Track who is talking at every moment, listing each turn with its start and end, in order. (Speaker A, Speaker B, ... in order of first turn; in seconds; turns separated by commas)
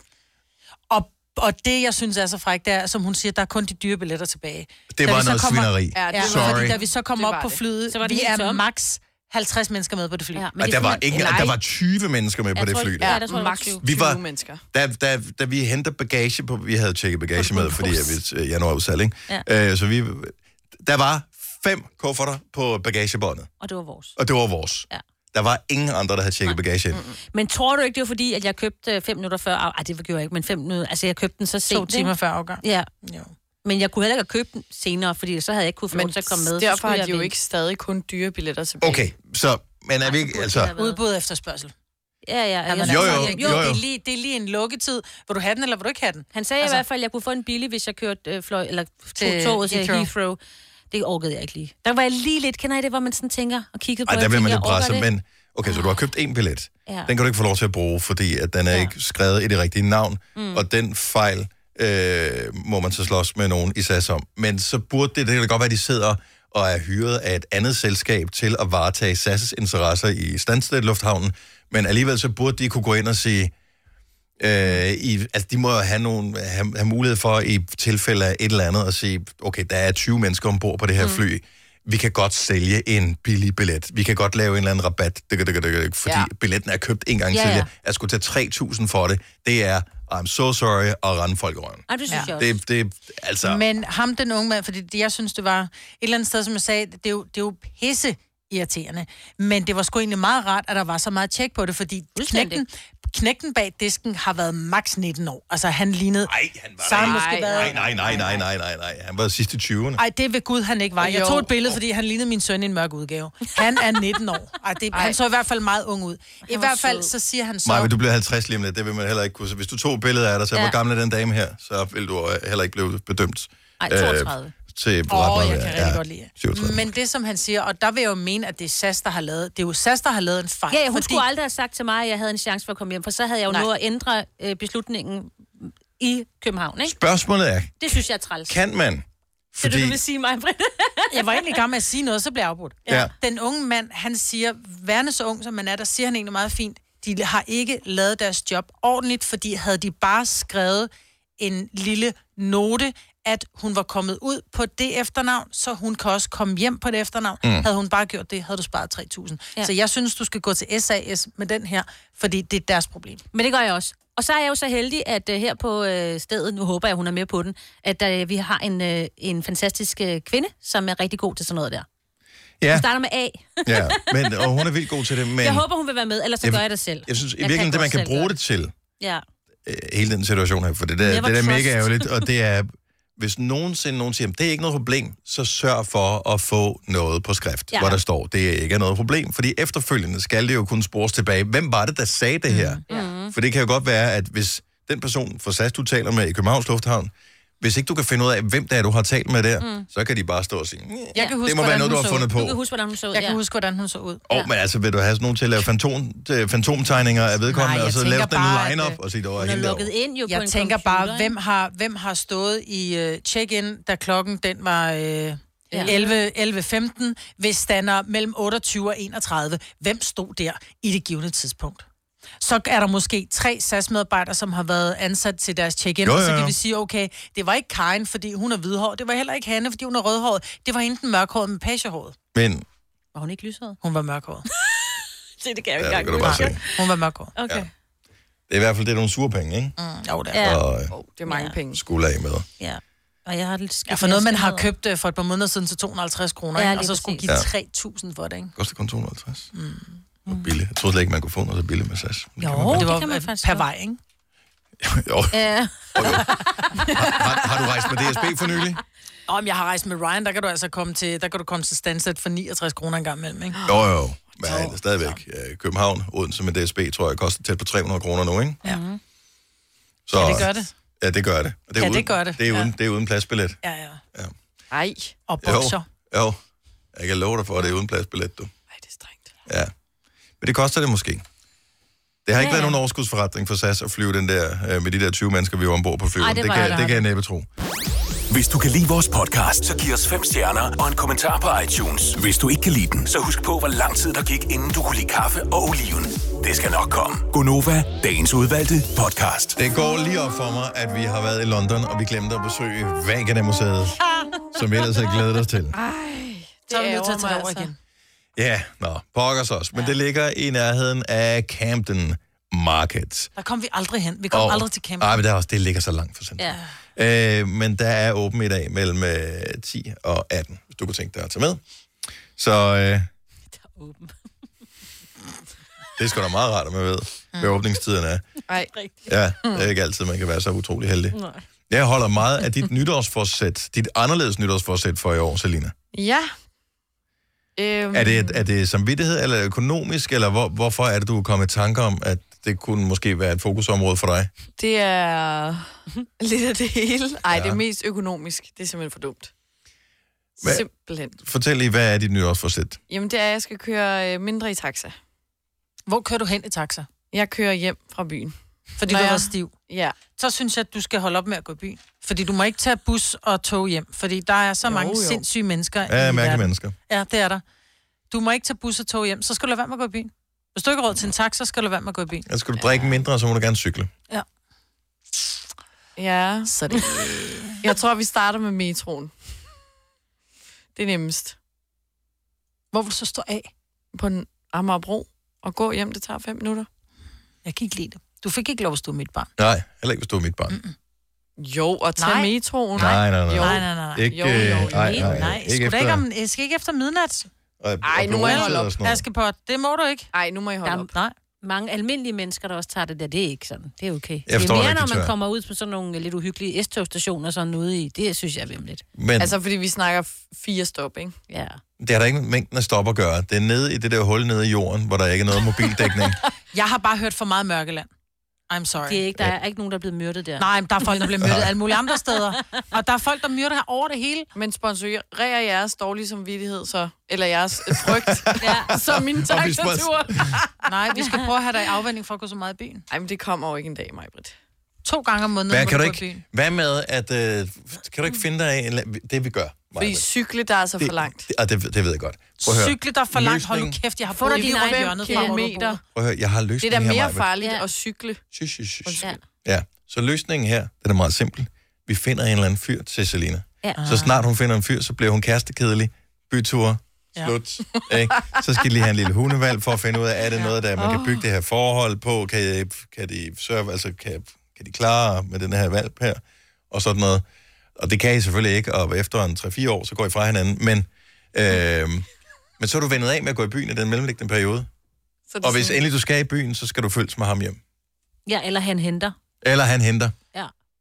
Speaker A: 0.9-10.5, Speaker B: 4.9-6.8, Speaker C: 5.9-7.6, Speaker D: 7.9-8.6, Speaker D: 10.3-11.6, Speaker B: 10.6-13.2, Speaker A: 11.1-11.4, Speaker D: 12.5-13.8, Speaker C: 13.0-14.6, Speaker B: 13.8-14.2, Speaker B: 14.7-23.5, Speaker D: 17.4-18.2, Speaker D: 23.6-24.2, Speaker B: 24.2-27.0, Speaker C: 26.9-27.2, Speaker D: 27.3-32.9, Speaker A: 31.7-33.3, Speaker D: 33.6-37.3, Speaker C: 35.9-39.1, Speaker B: 38.8-40.7, Speaker D: 40.0-41.0, Speaker A: 40.8-41.7, Speaker D: 42.2-43.7, Speaker A: 42.7-46.8, Speaker B: 42.8-43.8, Speaker D: 46.3-50.4, Speaker A: 49.2-50.1, Speaker D: 50.9-55.1, Speaker B: 54.0-73.5, Speaker D: 55.6-56.0, Speaker D: 60.4-60.6, Speaker B: 74.4-93.6, Speaker D: 87.3-87.7, Speaker D: 91.9-92.5, Speaker A: 93.4-108.4, Speaker D: 102.2-102.6, Speaker B: 106.3-110.0, Speaker C: 107.0-108.0, Speaker A: 110.0-117.9, Speaker C: 111.0-111.5, Speaker C: 114.9-115.2, Speaker D: 116.5-117.1, Speaker B: 117.6-126.9, Speaker D: 123.8-124.5, Speaker A: 125.1-131.2, Speaker D: 130.7-136.9, Speaker B: 136.8-137.8, Speaker D: 137.8-138.6, Speaker B: 138.5-140.0, Speaker D: 139.6-141.6, Speaker A: 141.1-163.2, Speaker D: 142.8-143.1, Speaker B: 142.9-143.1, Speaker B: 157.4-157.7, Speaker D: 163.3-171.8, Speaker B: 172.6-172.8, Speaker D: 172.7-174.7, Speaker B: 173.7-175.6, Speaker D: 175.4-178.3, Speaker B: 176.4-178.7, Speaker B: 179.7-202.6, Speaker D: 181.0-182.3, Speaker D: 187.7-188.0, Speaker A: 192.5-192.8, Speaker D: 192.9-193.3, Speaker D: 199.6-199.9, Speaker A: 201.1-202.3, Speaker D: 202.3-203.4, Speaker A: 203.1-204.2, Speaker B: 204.3-209.9, Speaker A: 207.5-209.0, Speaker D: 209.4-211.3, Speaker A: 210.3-221.8, Speaker D: 215.7-216.2, Speaker A: 222.4-232.2, Speaker B: 226.0-226.5, Speaker B: 232.3-232.6, Speaker D: 233.1-233.8, Speaker A: 233.8-234.4, Speaker D: 235.4-237.7, Speaker B: 235.8-236.6, Speaker A: 236.2-237.3, Speaker B: 238.5-239.8, Speaker A: 239.8-240.5, Speaker D: 240.3-240.6, Speaker B: 240.4-240.9, Speaker C: 240.9-241.8, Speaker D: 241.2-241.6, Speaker B: 241.7-242.4, Speaker D: 242.6-244.7, Speaker A: 243.9-248.5, Speaker D: 246.6-247.2, Speaker B: 248.6-249.5, Speaker A: 249.5-250.0, Speaker B: 250.3-252.9, Speaker D: 252.4-253.6, Speaker A: 252.6-254.0, Speaker B: 254.8-255.4, Speaker D: 255.3-256.8, Speaker B: 255.9-256.4, Speaker B: 256.9-258.8, Speaker A: 259.3-263.6, Speaker B: 263.6-268.6, Speaker A: 264.4-264.8, Speaker D: 268.6-269.0, Speaker B: 270.1-270.5, Speaker A: 270.1-270.7, Speaker B: 271.0-273.6, Speaker A: 271.8-272.6, Speaker A: 273.6-274.0, Speaker C: 274.7-275.2, Speaker A: 275.3-275.8, Speaker B: 275.4-276.4, Speaker B: 276.9-278.5, Speaker C: 278.7-279.3, Speaker B: 280.4-281.2, Speaker B: 282.2-287.5, Speaker D: 282.4-282.8, Speaker D: 286.2-287.0, Speaker E: 288.3-299.6, Speaker B: 299.6-304.0, Speaker B: 304.5-305.7, Speaker C: 305.7-307.7, Speaker A: 306.7-307.8, Speaker B: 308.4-313.3, Speaker A: 313.4-315.2, Speaker B: 314.3-321.6, Speaker B: 322.3-323.1, Speaker D: 323.6-324.1, Speaker B: 326.0-328.4, Speaker B: 329.1-331.2, Speaker D: 331.1-331.4, Speaker B: 331.7-335.7, Speaker C: 335.9-336.3, Speaker C: 337.6-338.4, Speaker B: 337.9-344.3, Speaker C: 344.6-349.3, Speaker B: 347.3-347.6, Speaker C: 350.4-351.2, Speaker B: 351.2-352.8, Speaker C: 352.9-354.9, Speaker A: 355.9-356.9, Speaker C: 357.1-360.0, Speaker A: 358.8-367.4, Speaker C: 364.6-365.2, Speaker B: 365.9-366.7, Speaker A: 368.1-372.2, Speaker B: 372.3-373.9, Speaker C: 372.6-373.0, Speaker C: 375.9-376.9, Speaker A: 376.5-377.7, Speaker C: 377.6-379.4, Speaker C: 380.7-381.4, Speaker A: 382.7-383.5, Speaker C: 383.9-386.7, Speaker A: 387.4-389.3, Speaker B: 389.4-390.6, Speaker A: 390.5-390.7, Speaker C: 391.4-395.3, Speaker A: 392.0-397.3, Speaker B: 392.8-396.0, Speaker D: 394.7-395.0, Speaker B: 397.6-399.0, Speaker C: 397.8-398.7, Speaker A: 398.1-400.1, Speaker C: 400.1-400.9, Speaker D: 400.6-400.9, Speaker D: 401.4-408.8, Speaker B: 404.3-405.1, Speaker B: 408.9-409.4, Speaker C: 409.2-411.1, Speaker D: 411.3-411.6, Speaker B: 411.8-416.2, Speaker A: 416.5-417.9, Speaker A: 418.5-419.0, Speaker D: 418.9-421.2, Speaker A: 420.4-424.3, Speaker B: 421.2-421.5, Speaker C: 424.3-430.7, Speaker B: 427.7-430.3, Speaker D: 428.4-428.7, Speaker A: 430.6-432.9, Speaker D: 431.0-431.3, Speaker C: 432.9-434.3, Speaker A: 434.8-436.2, Speaker B: 435.5-440.1, Speaker C: 439.8-441.3, Speaker B: 440.8-443.8, Speaker A: 442.4-445.8, Speaker D: 444.2-445.4, Speaker C: 444.2-445.8, Speaker B: 445.9-447.2, Speaker C: 446.6-448.2, Speaker D: 447.4-447.6, Speaker B: 448.3-467.2, Speaker C: 448.8-449.1, Speaker A: 453.8-454.2, Speaker C: 460.8-461.2, Speaker B: 467.8-472.1, Speaker B: 472.6-474.7, Speaker C: 475.3-475.8, Speaker B: 475.4-477.6, Speaker D: 478.2-479.1, Speaker B: 479.4-480.1